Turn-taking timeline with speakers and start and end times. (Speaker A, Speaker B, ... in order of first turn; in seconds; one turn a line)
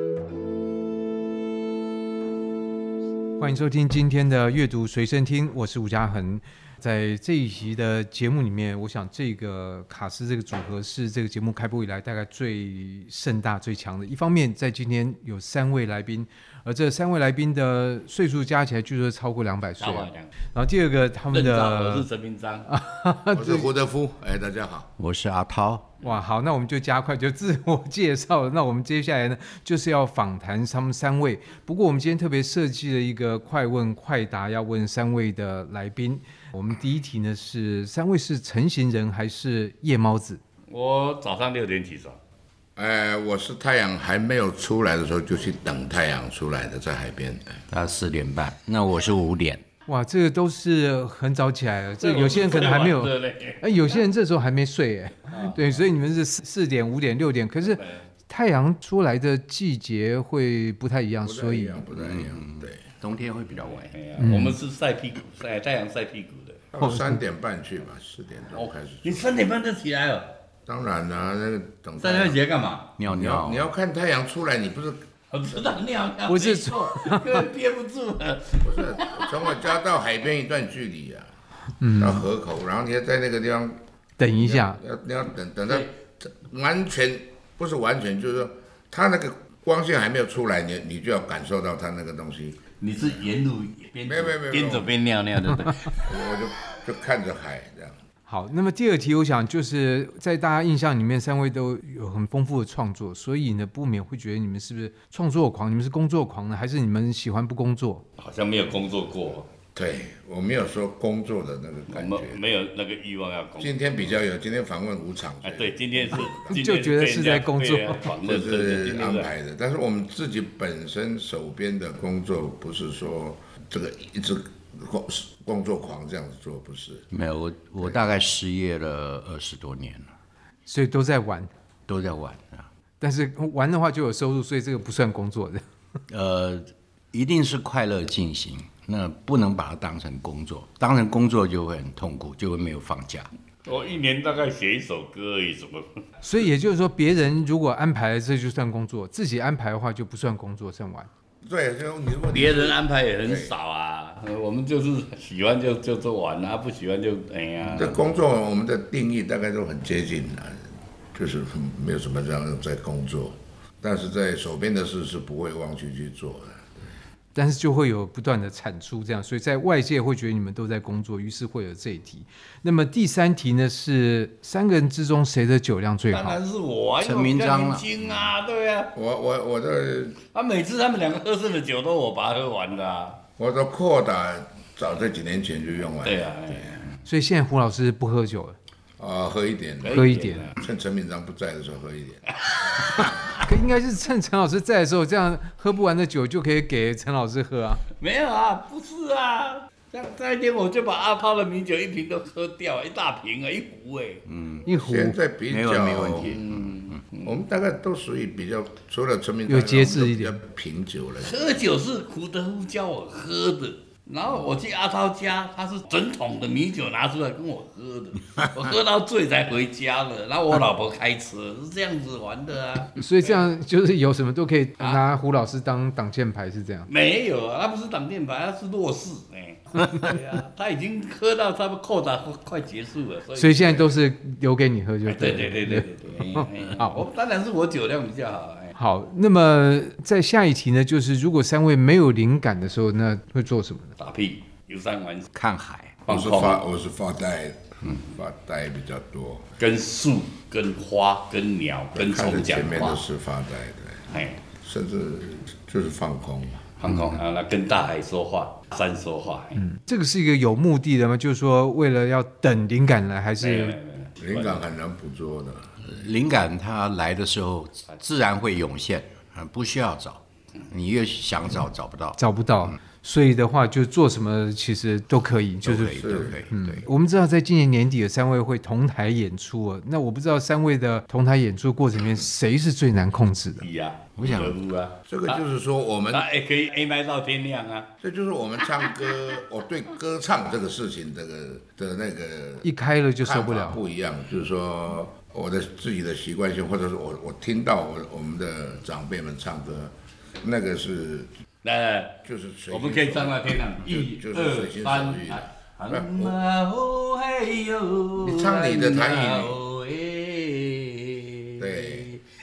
Speaker A: 3.4-22.1
Speaker B: 19.8-20.3
Speaker B: 21.3-22.7
Speaker A: 22.7-23.7
Speaker C: 23.3-24.9
Speaker D: 25.0-25.9
Speaker A: 26.0-40.4
Speaker B: 40.7-42.2
Speaker C: 42.8-47.6
Speaker D: 47.7-49.6
Speaker A: 49.9-61.8
Speaker B: 52.0-53.6
Speaker B: 55.3-55.8
Speaker B: 57.7-58.1
Speaker C: 61.2-62.8
Speaker D: 61.9-64.0
Speaker B: 63.8-66.6
Speaker A: 64.2-64.6
Speaker C: 66.7-69.3
Speaker A: 66.8-67.2
Speaker B: 68.5-70.3
Speaker C: 70.7-72.4
Speaker B: 72.0-72.9
Speaker D: 73.0-73.7
Speaker C: 73.1-75.0
Speaker B: 75.3-79.6
Speaker A: 76.3-77.5
Speaker C: 78.6-81.3
Speaker A: 81.8-82.3
Speaker C: 82.0-83.8
Speaker A: 84.2-84.8
Speaker C: 84.4-92.6
Speaker B: 92.8-96.3
Speaker C: 94.0-94.9
Speaker C: 96.0-98.0
Speaker A: 98.3-108.0
Speaker B: 108.2-109.5
Speaker C: 109.8-112.4
Speaker B: 111.9-114.2
Speaker C: 113.6-116.6
Speaker B: 115.4-119.3
Speaker A: 116.5-118.1
Speaker C: 118.2-127.1
Speaker D: 127.1-130.1
Speaker A: 130.7-131.5
Speaker D: 131.9-132.7
Speaker A: 133.0-135.6
Speaker D: 136.1-143.3
Speaker B: 143.7-146.0
Speaker A: 146.2-151.1
Speaker C: 151.4-153.5
Speaker B: 152.3-158.0
Speaker C: 157.7-166.9
Speaker A: 167.3-176.4
Speaker B: 176.1-178.9
Speaker D: 177.0-177.9
Speaker C: 178.9-180.2
Speaker B: 180.3-183.2
Speaker C: 183.4-186.7
Speaker B: 186.0-186.9
Speaker A: 187.0-188.6
Speaker C: 189.0-190.0
Speaker B: 189.8-190.6
Speaker A: 189.9-190.5
Speaker C: 190.6-193.4
Speaker B: 192.5-193.1
Speaker A: 193.4-197.8
Speaker B: 198.0-204.2
Speaker D: 204.2-204.7
Speaker A: 204.7-205.2
Speaker C: 204.8-206.3
Speaker D: 205.5-207.0
Speaker B: 206.2-207.3
Speaker C: 207.2-211.5
Speaker A: 209.5-210.4
Speaker B: 211.2-223.4
Speaker A: 223.0-226.9
Speaker B: 226.9-234.0
Speaker A: 233.4-237.0
Speaker B: 235.1-238.8
Speaker A: 238.8-243.9
Speaker B: 244.0-245.3
Speaker D: 245.3-246.0
Speaker B: 246.1-246.7
Speaker C: 246.1-249.5
Speaker B: 249.6-253.0
Speaker C: 251.9-254.1
Speaker B: 254.1-254.4
Speaker C: 254.6-256.8
Speaker B: 256.8-259.6
Speaker D: 256.9-257.1
Speaker A: 259.6-263.8
Speaker B: 263.4-264.7
Speaker C: 264.2-265.8
Speaker D: 265.9-272.2
Speaker A: 272.2-283.7
Speaker D: 275.6-276.9
Speaker C: 276.0-276.4
Speaker B: 283.6-285.4
Speaker D: 284.1-284.6
Speaker C: 285.1-286.2
Speaker B: 286.1-287.9
Speaker C: 288.0-292.6
Speaker A: 292.6-293.8
Speaker C: 293.2-301.3
Speaker B: 301.6-312.2
Speaker C: 302.2-306.4
Speaker C: 308.2-309.5
Speaker C: 311.6-312.1